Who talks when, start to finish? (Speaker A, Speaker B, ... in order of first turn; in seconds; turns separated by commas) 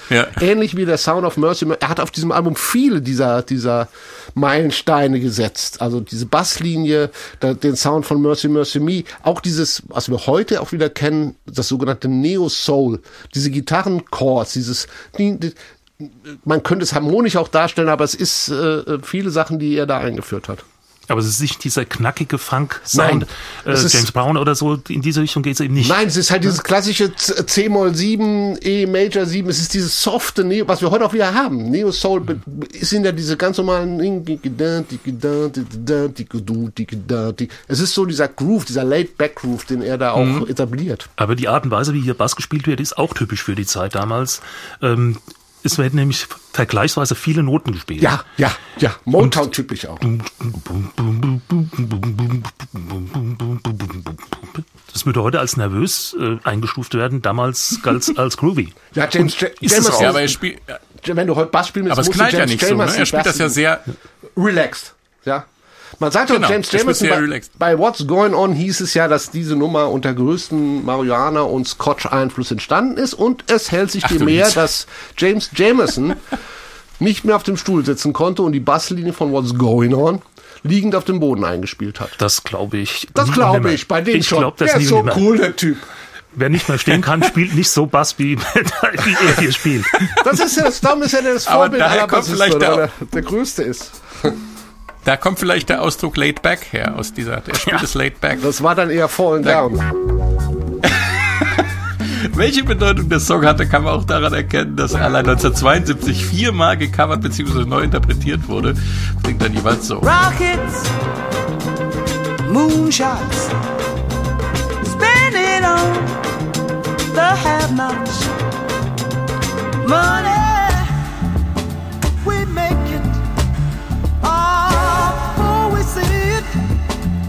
Speaker A: 0.1-0.4, Speaker B: 0.3-20.6, Speaker C: 21.1-26.0, Speaker B: 22.9-24.1, Speaker B: 25.8-41.1, Speaker A: 40.2-40.5, Speaker C: 41.2-48.2, Speaker B: 48.0-50.1, Speaker C: 50.0-58.9, Speaker B: 58.9-60.4, Speaker C: 59.6-60.1, Speaker A: 59.6-60.8, Speaker B: 61.0-63.6, Speaker A: 61.9-63.9, Speaker B: 64.4-65.5, Speaker B: 66.0-76.2, Speaker A: 66.3-67.5, Speaker A: 74.0-74.5, Speaker B: 77.0-82.2, Speaker C: 82.2-85.3, Speaker B: 83.2-85.8, Speaker C: 86.3-90.3, Speaker B: 90.2-94.4, Speaker A: 91.5-92.8, Speaker A: 95.0-98.5, Speaker B: 98.4-99.9, Speaker A: 100.8-110.1, Speaker D: 110.0-110.9, Speaker D: 112.4-113.5, Speaker D: 114.8-116.2, Speaker D: 117.1-118.4, Speaker D: 119.8-121.0, Speaker D: 122.2-123.2, Speaker D: 124.2-126.6